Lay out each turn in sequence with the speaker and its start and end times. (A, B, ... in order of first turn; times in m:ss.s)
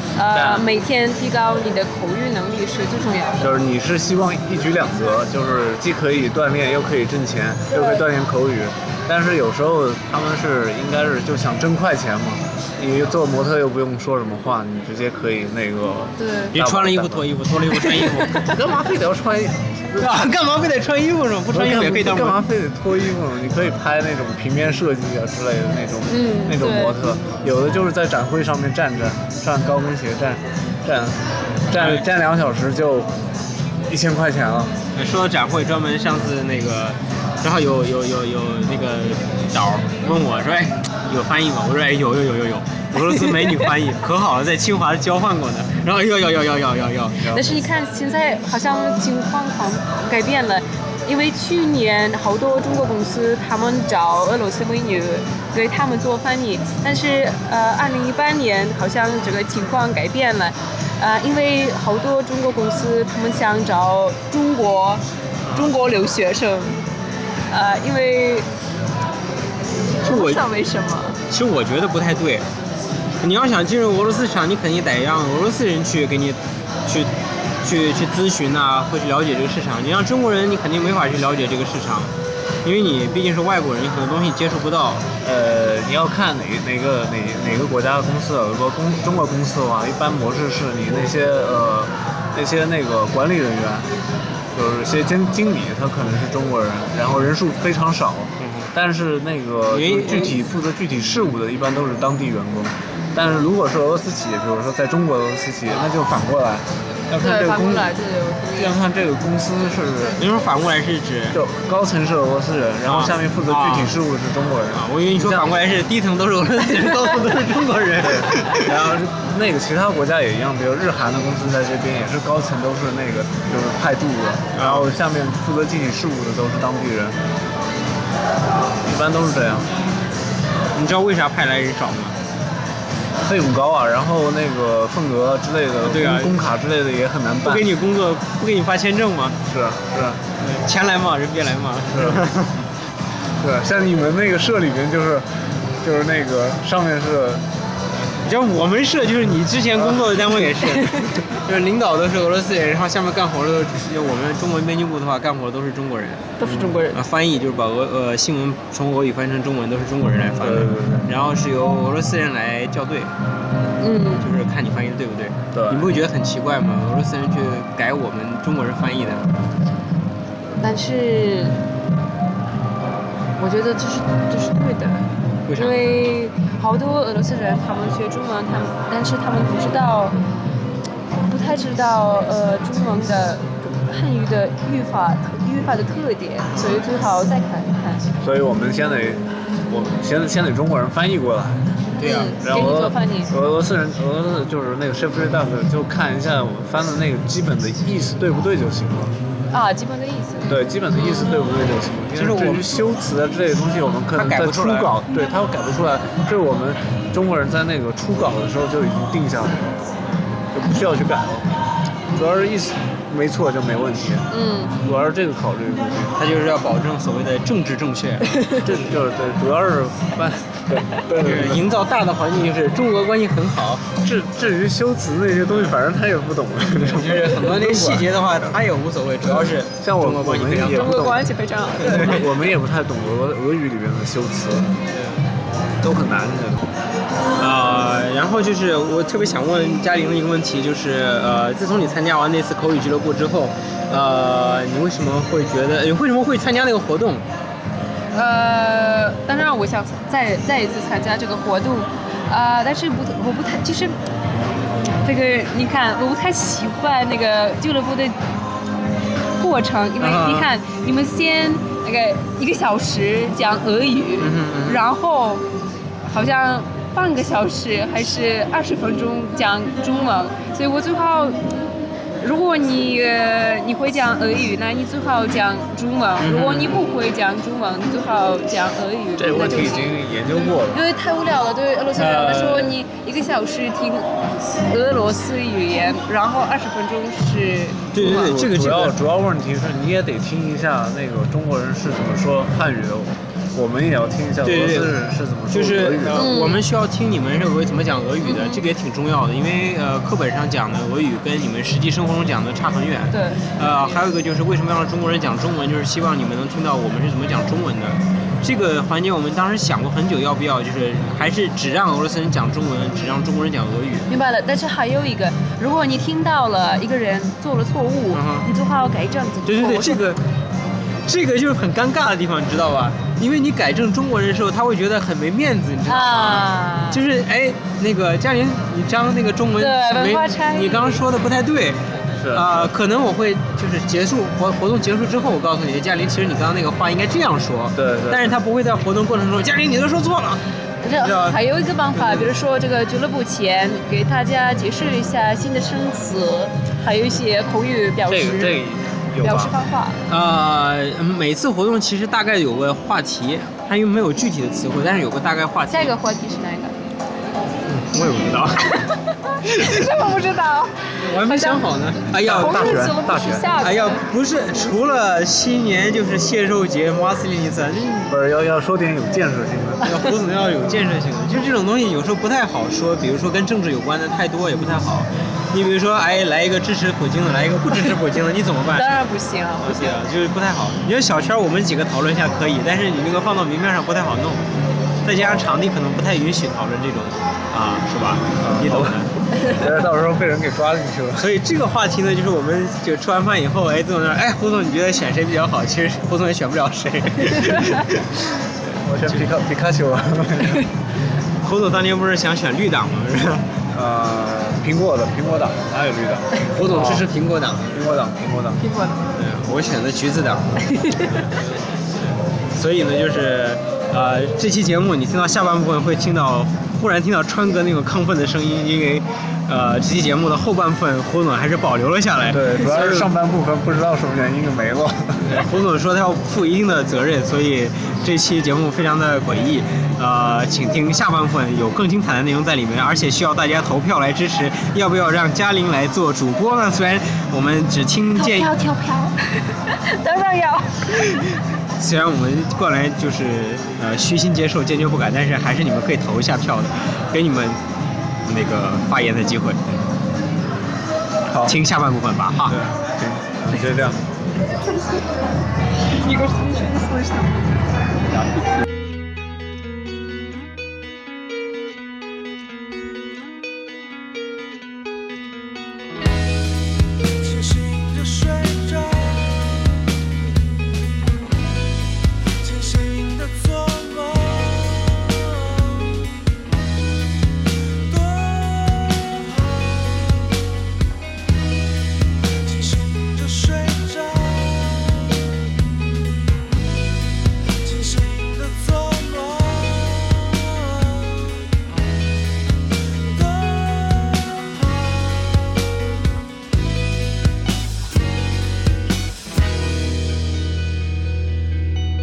0:00.1-0:03.5 A
0:00.3-0:00.7 B
0:03.4-0:17.3 B
0:07.7-0:08.0 A
0:16.2-0:16.6 A
0:16.5-0:18.5 C
0:17.8-0:18.5 A
0:18.4-0:20.3 B
0:20.0-0:22.4 C
0:21.5-0:33.1 B
0:26.1-0:27.1 A
0:31.7-0:32.0 C
0:33.9-0:34.8 B
0:35.0-0:47.4 C
0:42.9-0:43.7 A
0:47.2-0:47.4 B
0:47.3-1:06.8 A
1:05.4-1:05.7 C
1:07.5-1:08.5 A
1:10.0-1:11.2 A
1:10.0-1:10.4 C
1:11.3-1:12.4 C
1:13.2-1:17.1 C
1:17.6-1:22.1 C
1:22.6-1:25.0 C
1:25.2-1:33.9 B
1:34.5-1:47.9 B
1:38.4-1:38.7 C
1:39.7-1:40.4 C
1:47.2-1:48.8 A
1:48.5-1:50.2 B
1:50.2-1:51.4 C
1:51.3-1:55.5 B
1:52.9-1:53.9 C
1:54.7-1:59.0 C
1:58.0-2:07.2 B
2:04.5-2:04.9 C
2:08.8-2:09.7 B
2:10.7-2:12.2 C
2:13.2-2:17.7 B
2:15.8-2:16.4 C
2:17.4-2:19.4 C
2:19.4-2:20.2 B
2:20.4-2:22.6 C
2:21.9-2:22.2 B
2:23.4-2:27.4 B
2:28.0-2:36.3 C
2:29.8-2:30.4 B
2:36.4-2:37.0 A
2:36.4-2:36.7 B
2:36.9-2:43.1 C
2:40.4-2:41.1 B
2:43.8-2:44.3 A
2:44.2-2:49.2 C
2:45.5-2:45.9 B
2:50.6-2:51.6 A
2:53.4-3:00.2 A
2:55.5-2:55.9 C
3:01.2-3:08.0 A
3:06.5-3:06.9 C
3:08.2-3:11.7 B
3:12.0-3:13.3 A
3:12.0-3:12.3 C
3:12.4-3:19.1 B
3:19.5-3:21.2 A
3:20.5-3:29.8 B
3:22.1-3:22.7 C
3:24.2-3:24.9 C
3:30.5-3:31.5 B
3:32.1-3:36.1 B
3:34.3-3:34.7 A
3:36.2-3:38.8 C
3:38.6-3:41.7 B
3:41.1-3:43.8 C
3:44.0-3:48.1 B
3:46.7-3:51.0 C
3:49.2-3:51.3 B
3:50.7-3:52.3 A
3:51.8-3:54.8 B
3:51.8-3:52.2 C
3:54.9-3:55.2 C
3:55.8-3:56.7 B
3:57.4-4:07.2 C
4:08.1-4:13.9 A
4:15.0-4:18.2 A
4:19.4-4:25.4 A
4:20.0-4:20.5 C
4:24.2-4:24.8 C
4:26.0-4:31.4 A
4:32.2-4:40.0 A
4:36.2-4:36.8 C
4:39.2-4:40.8 B
4:40.6-4:48.3 A
4:42.0-4:42.8 C
4:47.9-4:48.9 C
4:48.0-4:56.3 B
4:54.4-4:55.0 C
4:55.5-5:14.1 C
4:56.1-4:56.6 A
4:58.2-4:58.6 A
5:03.1-5:03.5 A
5:14.1-5:20.0 A
5:18.1-5:18.5 C
5:19.4-5:20.2 C
5:21.0-5:40.4 C
5:25.8-5:27.0 A
5:29.6-5:31.0 A
5:32.2-5:32.7 B
5:37.7-5:38.4 B
5:40.8-5:48.6 A
5:40.9-5:41.4 C
5:41.9-5:42.2 C
5:48.0-5:49.5 B
5:49.2-5:50.0 A
5:50.1-5:55.9 C
5:55.7-5:56.7 A
5:57.7-5:58.8 C
5:58.7-6:04.1 A
6:01.0-6:03.0 C
6:02.1-6:03.5 B
6:03.6-6:08.1 C
6:08.1-6:09.9 B
6:09.8-6:18.9 C
6:18.7-6:20.0 A
6:19.6-6:24.4 C
6:25.0-6:29.1 C
6:25.2-6:25.5 B
6:28.4-6:31.3 B
6:31.2-6:39.3 C
6:38.8-6:40.7 B
6:41.4-6:43.4 C
6:43.7-6:47.1 B
6:46.5-6:47.7 C
6:47.7-6:48.6 B
6:48.6-6:49.0 A
6:49.1-6:51.6 C
6:50.7-6:51.1 A
6:52.6-7:03.1 C
7:02.3-7:05.5 B
7:05.2-7:18.5 C
7:18.1-7:21.0 A
7:21.8-7:27.6 C
7:28.2-7:29.6 C
7:31.3-7:31.6 B
7:31.4-7:32.6 C
7:32.4-7:34.0 B
7:34.6-7:35.1 A
7:35.8-7:37.7 A
7:47.5-7:49.2 D
7:52.4-7:54.7 D
7:57.9-7:58.5 D
8:02.5-8:04.8 D
8:07.6-8:10.1 D
8:13.2-8:13.8 D